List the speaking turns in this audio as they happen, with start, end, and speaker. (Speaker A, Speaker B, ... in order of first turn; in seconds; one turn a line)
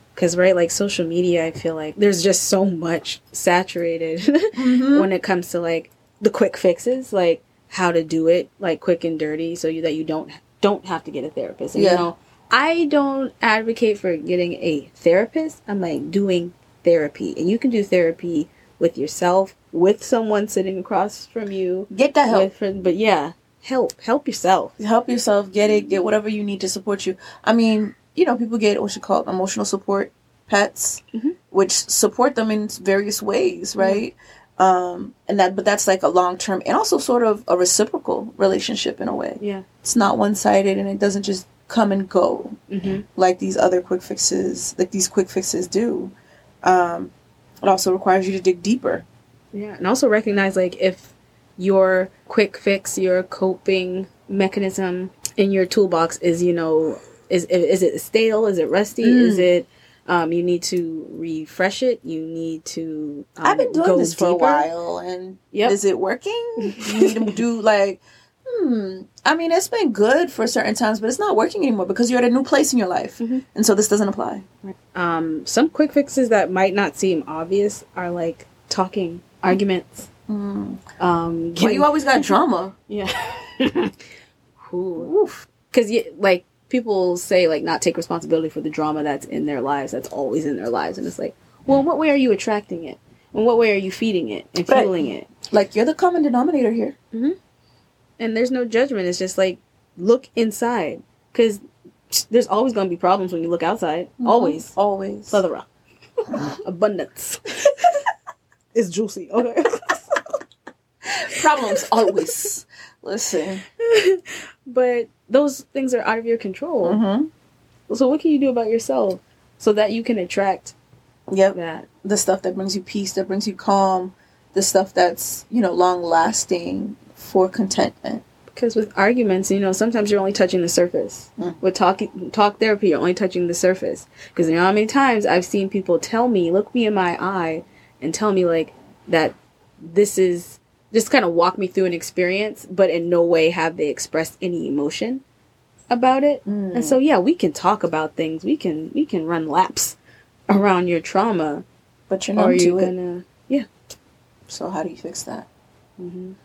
Speaker A: 0.2-24.8
Speaker B: 4.6-5.1
Speaker B: 11.7-12.1
Speaker B: 21.9-22.5
Speaker B: 24.8-42.6
Speaker A: 33.8-34.0
Speaker A: 39.4-39.6
Speaker A: 42.7-43.1
Speaker B: 43.2-49.1
Speaker A: 49.5-64.7
Speaker B: 59.0-59.5
Speaker B: 63.4-74.5
Speaker A: 65.5-65.8
Speaker A: 66.6-67.4
Speaker A: 74.7-80.1
Speaker B: 80.3-80.8
Speaker A: 81.0-82.4
Speaker B: 81.6-82.8
Speaker A: 82.9-83.9
Speaker A: 84.6-85.1
Speaker B: 85.0-85.5
Speaker A: 85.7-95.3
Speaker B: 94.7-95.0
Speaker B: 95.5-97.0
Speaker A: 98.2-101.6
Speaker A: 102.1-104.7
Speaker B: 104.2-105.4
Speaker A: 105.3-105.7
Speaker A: 106.5-108.0
Speaker A: 108.7-110.2
Speaker B: 111.1-113.6
Speaker A: 113.8-117.0
Speaker B: 116.8-117.3
Speaker A: 117.9-120.8
Speaker B: 121.3-128.2
Speaker A: 121.5-121.9
Speaker A: 128.5-145.2
Speaker A: 145.9-150.0
Speaker B: 146.5-147.0
Speaker A: 150.5-151.7
Speaker B: 152.1-152.9
Speaker A: 152.4-153.7
Speaker B: 154.5-155.5
Speaker A: 156.0-156.4